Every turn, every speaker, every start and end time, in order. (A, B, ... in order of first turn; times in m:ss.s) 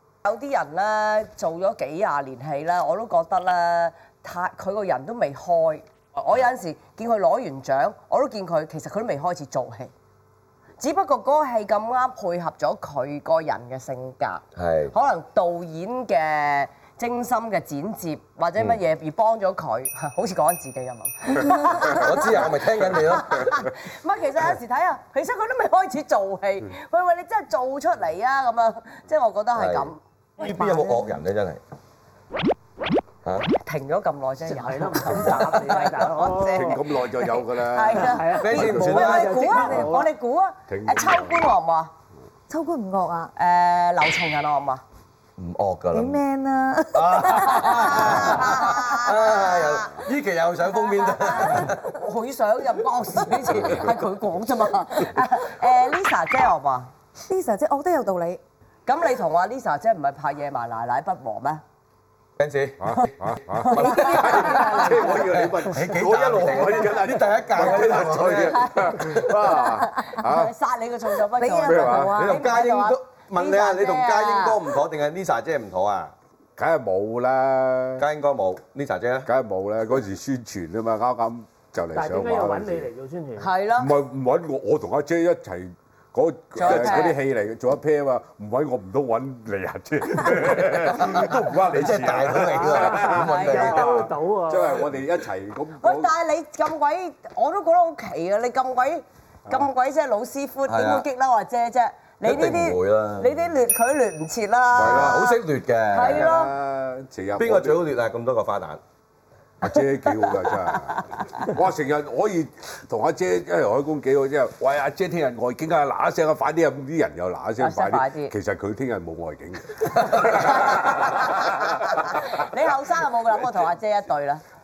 0:00.2-0:09.9 A
0:10.8-0:30.0 A
0:14.6-0:14.9 B
0:21.9-0:23.5 B
0:29.6-0:31.6 B
0:30.5-0:30.9 C
0:33.6-0:41.9 A
0:34.5-0:36.8 D
0:36.6-0:38.2 E
0:38.0-0:40.1 D
0:38.4-0:39.5 B
0:39.4-0:39.9 C
0:40.7-0:41.4 E
0:42.5-0:43.3 C
0:43.4-0:44.8 A
0:45.4-0:46.2 B
0:45.9-0:48.8 C
0:46.9-0:52.0 B
0:47.6-0:50.0 A
0:50.9-0:56.9 A
0:57.3-0:58.4 C
0:58.9-1:01.6 A
1:02.4-1:08.7 B
1:02.8-1:10.5 E
1:03.6-1:05.2 A
1:03.7-1:04.8 C
1:08.4-1:14.6 A
1:11.3-1:12.4 C
1:11.6-1:12.1 E
1:12.2-1:16.1 B
1:16.6-1:18.0 E
1:18.0-1:19.3 B
1:19.3-1:22.9 E
1:21.9-1:23.5 D
1:23.4-1:23.9 A
1:23.8-1:36.1 E
1:26.6-1:27.2 A
1:30.3-1:33.9 B
1:32.6-1:35.0 D
1:33.1-1:33.7 A
1:35.8-1:45.4 A
1:40.7-1:41.1 B
1:42.2-1:43.4 B
1:44.7-1:45.3 E
1:44.8-1:46.3 B
1:45.9-1:46.5 A
1:46.0-1:47.8 E
1:47.4-1:48.8 B
1:49.6-2:02.3 E
1:57.6-1:58.3 A
2:00.1-2:04.4 A